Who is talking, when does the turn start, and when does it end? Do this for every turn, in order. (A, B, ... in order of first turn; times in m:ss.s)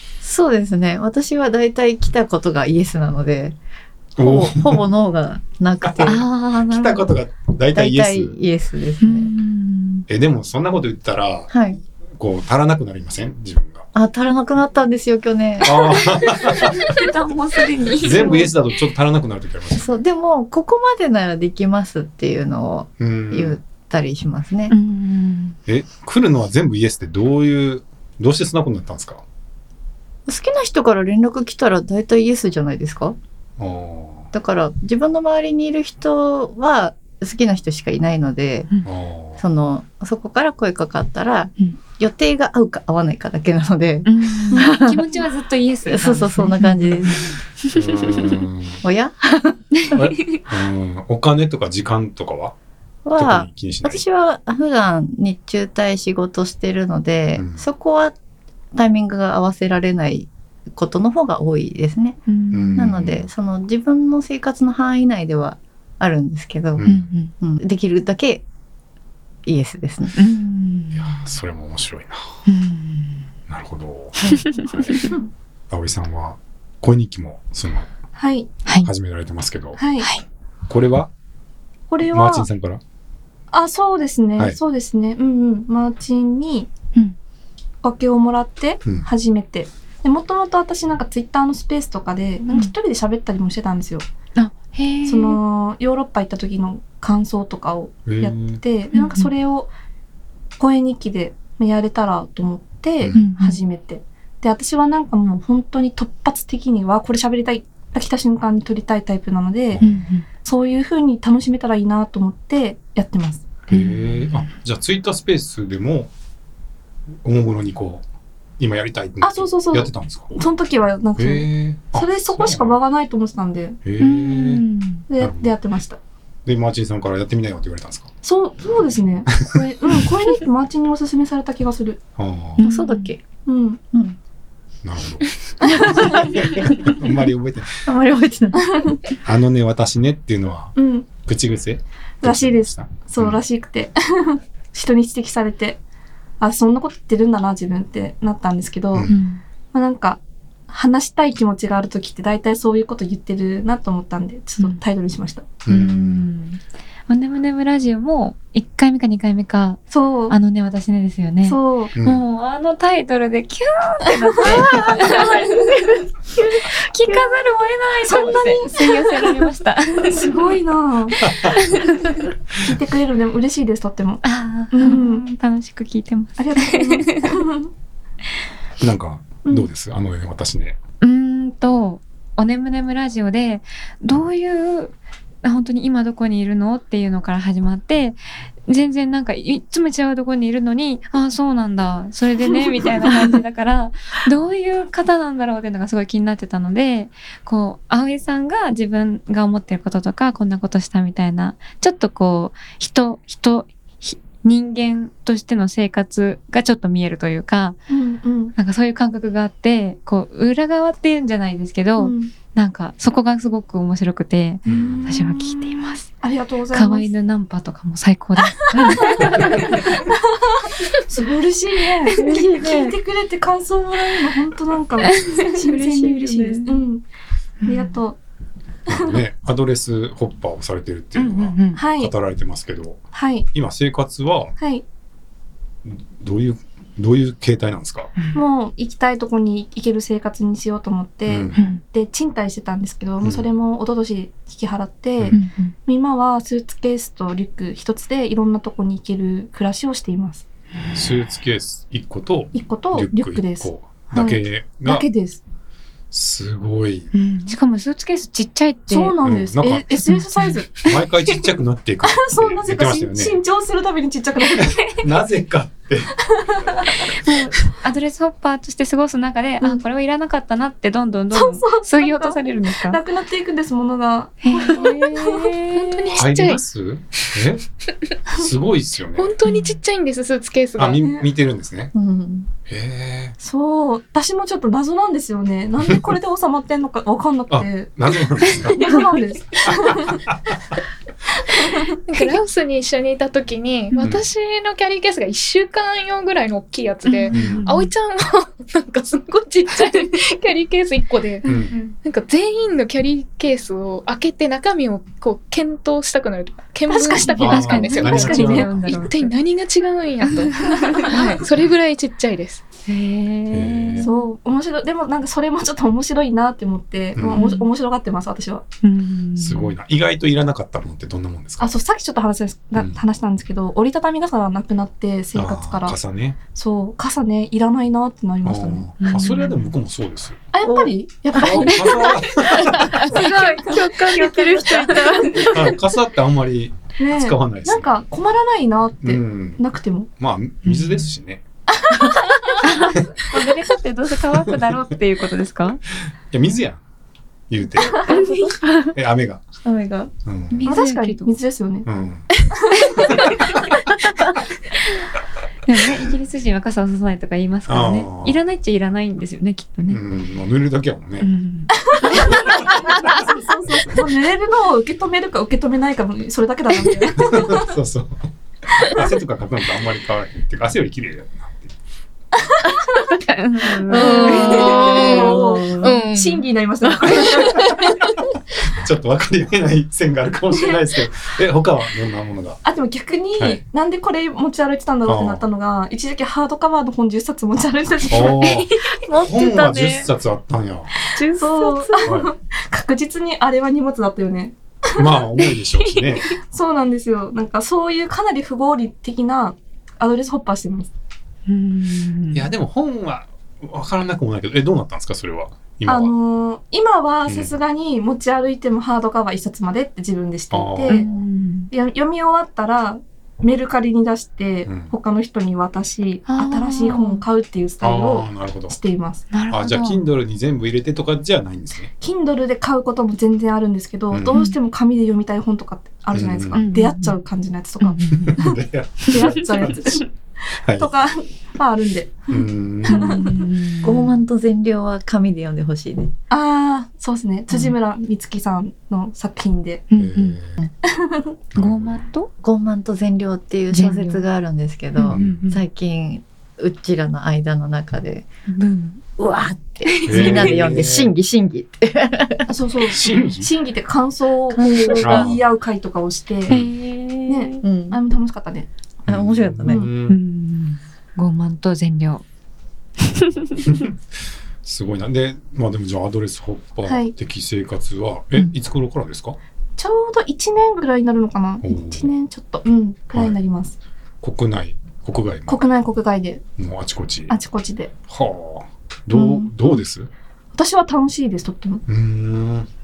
0:00.2-0:03.6 A
0:04.2-0:04.9 B
0:04.2-0:07.0 A
0:05.8-0:08.4 B
0:06.1-0:06.8 C
0:07.7-0:09.3 A
0:09.0-0:10.1 C
0:10.1-0:11.6 B
0:11.5-0:11.8 A
0:12.2-0:13.9 B
0:14.0-0:16.3 A
0:15.6-0:16.9 B
0:16.4-0:18.5 C
0:18.0-0:20.0 B
0:19.8-0:24.7 A
0:23.0-0:23.6 B
0:24.7-0:25.6 C
0:25.7-0:29.2 B
0:30.3-0:33.2 A
0:33.6-0:34.3 B
0:34.3-0:38.7 A
0:38.8-0:39.4 B
0:39.4-0:45.2 A
0:44.0-0:47.8 C
0:45.8-0:47.3 A
0:47.7-0:48.8 B
0:48.8-0:49.8 A
0:49.8-0:50.4 C
0:49.9-0:52.5 B
0:53.0-0:58.1 A
0:53.2-0:54.0 B
0:57.4-0:57.6 B
0:58.7-1:02.2 A
1:02.3-1:03.0 C
1:02.5-1:03.3 B
1:02.7-1:06.9 A
1:06.8-1:07.1 B
1:06.8-1:07.3 C
1:07.4-1:08.4 A
1:09.4-1:10.2 A
1:10.2-1:11.1 C
1:10.9-1:12.3 B
1:12.5-1:13.2 C
1:13.5-1:15.0 B
1:14.2-1:15.1 C
1:15.7-1:17.9 B
1:18.2-1:18.5 D
1:18.8-1:19.8 B
1:19.8-1:20.1 D
1:20.7-1:21.1 B
1:21.9-1:22.5 D
1:22.1-1:22.8 B
1:23.5-1:26.7 D
1:27.8-1:34.0 D
1:34.4-1:35.4 C
1:35.1-1:39.7 D
1:38.1-1:38.6 B
1:38.9-1:39.3 C
1:40.6-1:49.8 D
1:43.1-1:43.6 C
1:49.7-1:50.0 B
1:49.8-1:50.3 C
1:50.4-1:53.5 D
1:53.7-1:56.1 B
1:53.7-1:54.4 C
1:57.2-1:58.0 B
1:58.6-2:00.3 B
1:59.2-2:03.8 D
2:01.2-2:02.8 B
2:03.8-2:04.6 B
2:04.0-2:05.1 C
2:05.1-2:06.0 D
2:05.2-2:05.6 B
2:06.5-2:08.1 B
2:08.2-2:12.0 D
2:12.2-2:12.6 B
2:12.6-2:13.1 C
2:12.6-2:13.2 A
2:13.4-2:13.8 D
2:14.8-2:17.8 B
2:15.6-2:16.0 D
2:15.7-2:17.0 A
2:17.8-2:18.9 A
2:18.7-2:19.0 D
2:19.2-2:23.4 B
2:20.8-2:21.1 D
2:22.2-2:25.8 D
2:26.4-2:29.1 D
2:29.1-2:29.4 C
2:29.7-2:35.5 D
2:35.7-2:36.3 B
2:35.7-2:50.5 C
2:39.9-2:40.4 D
2:41.4-2:42.0 D
2:42.0-2:42.2 B
2:44.3-2:45.7 D
2:44.7-2:45.3 A
2:48.0-2:49.5 D
2:50.0-2:51.3 D
2:51.2-2:51.6 B
2:51.3-2:52.3 C
2:52.6-2:55.3 D
2:54.2-2:57.4 C
2:56.4-2:57.7 D
2:58.8-3:00.8 B
3:01.0-3:27.8 C
3:27.9-3:28.6 D
3:28.6-3:36.1 C
3:32.0-3:32.3 D
3:34.7-3:35.1 B
3:34.7-3:37.1 D
3:36.7-3:40.1 C
3:38.5-3:47.0 D
3:42.1-3:43.0 A
3:45.0-3:45.6 C
3:45.6-3:46.8 A
3:47.6-3:48.0 C
3:47.7-3:48.2 D
3:48.9-3:54.6 B
3:51.2-3:51.8 C
3:51.7-3:52.1 D
3:53.1-3:53.5 D
3:54.6-3:54.8 D
3:55.8-3:58.1 B
3:58.3-4:10.4 D
4:01.3-4:01.6 B
4:01.5-4:01.8 C
4:03.2-4:03.5 B
4:05.3-4:05.8 C
4:10.8-4:11.1 C
4:10.9-4:15.1 B
4:12.5-4:15.4 D
4:16.1-4:17.1 B
4:17.1-4:19.2 C
4:18.9-4:20.9 D
4:19.2-4:20.0 B
4:20.0-4:20.6 C
4:20.8-4:23.4 B
4:22.0-4:25.0 D
4:24.6-4:26.2 B
4:26.4-4:27.0 D
4:27.2-4:33.0 C
4:31.3-4:36.1 D
4:34.4-4:35.4 C
4:34.7-4:36.6 E
4:36.1-4:37.6 B
4:38.3-4:39.3 B
4:39.2-4:41.1 E
4:39.4-4:39.8 C
4:40.8-4:41.9 B
4:41.0-4:41.3 D
4:41.9-4:42.5 A
4:42.7-4:43.4 B
4:43.4-4:50.2 D
4:47.5-4:49.0 B
4:49.6-4:50.4 B
4:51.6-4:51.9 D
4:52.1-5:01.4 E
4:57.1-4:57.9 C
4:57.3-4:57.7 B
5:01.4-5:02.0 C
5:01.4-5:01.8 B
5:02.0-5:12.6 E
5:06.9-5:08.7 D
5:07.4-5:09.1 B
5:07.4-5:09.3 C
5:10.2-5:11.4 C
5:12.9-5:14.2 C
5:13.5-5:14.1 B
5:14.0-5:18.6 D
5:17.2-5:17.5 B
5:17.3-5:17.7 C
5:18.8-5:19.7 C
5:19.4-5:21.8 B
5:21.6-5:26.0 D
5:25.4-5:26.4 B
5:26.5-5:28.9 D
5:28.4-5:30.4 B
5:29.0-5:29.7 C
5:30.5-5:35.1 D
5:30.6-5:31.8 A
5:31.3-5:33.1 B
5:33.0-5:35.5 C
5:33.1-5:35.7 A
5:35.5-5:37.9 B
5:37.0-5:40.1 D
5:39.0-5:39.6 B
5:40.2-5:41.4 B
5:40.6-5:41.0 C
5:41.8-5:42.6 D
5:42.6-5:45.8 C
5:46.3-5:46.8 B
5:47.5-5:48.1 B
5:48.0-5:48.5 D
5:48.0-5:49.0 A
5:48.9-5:49.4 B
5:49.6-5:50.1 A
5:50.2-5:50.8 B
5:50.5-5:51.3 C
5:50.7-5:51.9 D
5:51.8-5:52.3 B
5:52.9-5:53.6 C
5:53.1-5:53.4 B
5:55.7-6:00.0 C
5:57.7-5:58.4 B
5:59.9-6:01.3 B
6:01.2-6:03.2 C
6:01.9-6:07.7 D
6:02.5-6:03.3 B
6:07.1-6:11.7 B
6:12.5-6:13.1 D
6:13.2-6:14.7 C
6:13.9-6:16.0 A
6:13.9-6:17.9 D
6:13.9-6:16.4 E
6:16.8-6:17.3 A
6:18.7-6:22.6 B
6:22.6-6:28.6 D
6:25.1-6:25.4 B
6:28.1-6:30.9 B
6:28.4-6:30.0 C
6:29.1-6:30.0 A
6:31.2-6:32.1 A
6:31.4-6:35.0 D
6:32.0-6:32.3 B
6:34.9-6:36.4 B
6:36.4-6:40.9 D
6:41.5-6:42.5 C
6:42.3-6:46.1 B
6:45.9-6:51.0 D
6:47.3-6:47.5 B
6:50.5-6:51.2 B
6:50.9-6:51.7 C
6:51.7-6:59.2 D
6:54.7-6:54.9 B
6:56.3-6:57.2 C
6:57.8-6:58.8 B
6:59.3-7:00.0 C
6:59.5-7:01.9 B
7:02.0-7:08.6 D
7:04.1-7:04.4 B
7:04.3-7:04.6 C
7:06.1-7:06.6 B
7:06.6-7:07.2 C
7:07.8-7:08.5 C
7:08.1-7:10.0 B
7:09.0-7:09.7 C
7:09.1-7:10.1 D
7:10.6-7:10.9 B
7:10.7-7:13.5 D
7:12.3-7:13.2 B
7:12.9-7:14.1 C
7:13.8-7:16.1 A
7:16.3-7:19.8 D
7:19.9-7:20.5 C
7:20.0-7:20.6 B
7:20.9-7:21.4 D
7:21.6-7:22.0 B
7:21.6-7:22.3 C
7:22.4-7:28.3 A
7:23.7-7:24.2 C
7:25.0-7:25.6 C
7:25.1-7:25.4 B
7:28.5-7:29.0 C
7:29.2-7:32.6 A
7:29.9-7:30.5 C
7:30.1-7:31.1 B
7:32.5-7:36.6 D
7:32.9-7:33.5 B
7:34.5-7:35.4 A
7:35.0-7:35.4 B
7:36.5-7:37.5 C
7:37.3-7:38.7 D
7:37.6-7:38.0 A
7:39.1-7:40.2 B
7:39.1-7:39.9 A
7:39.6-7:39.9 D
7:40.1-7:42.2 C
7:43.1-7:43.8 C
7:43.7-7:43.9 B
7:44.6-7:49.4 B
7:46.9-7:47.1 D
7:49.8-7:53.8 D
7:51.6-7:52.1 B
7:54.2-7:55.6 B
7:55.5-7:56.4 D
7:56.6-7:57.4 B
7:57.3-7:57.9 D
7:58.1-8:00.1 B
8:00.6-8:01.8 D
8:01.9-8:02.7 B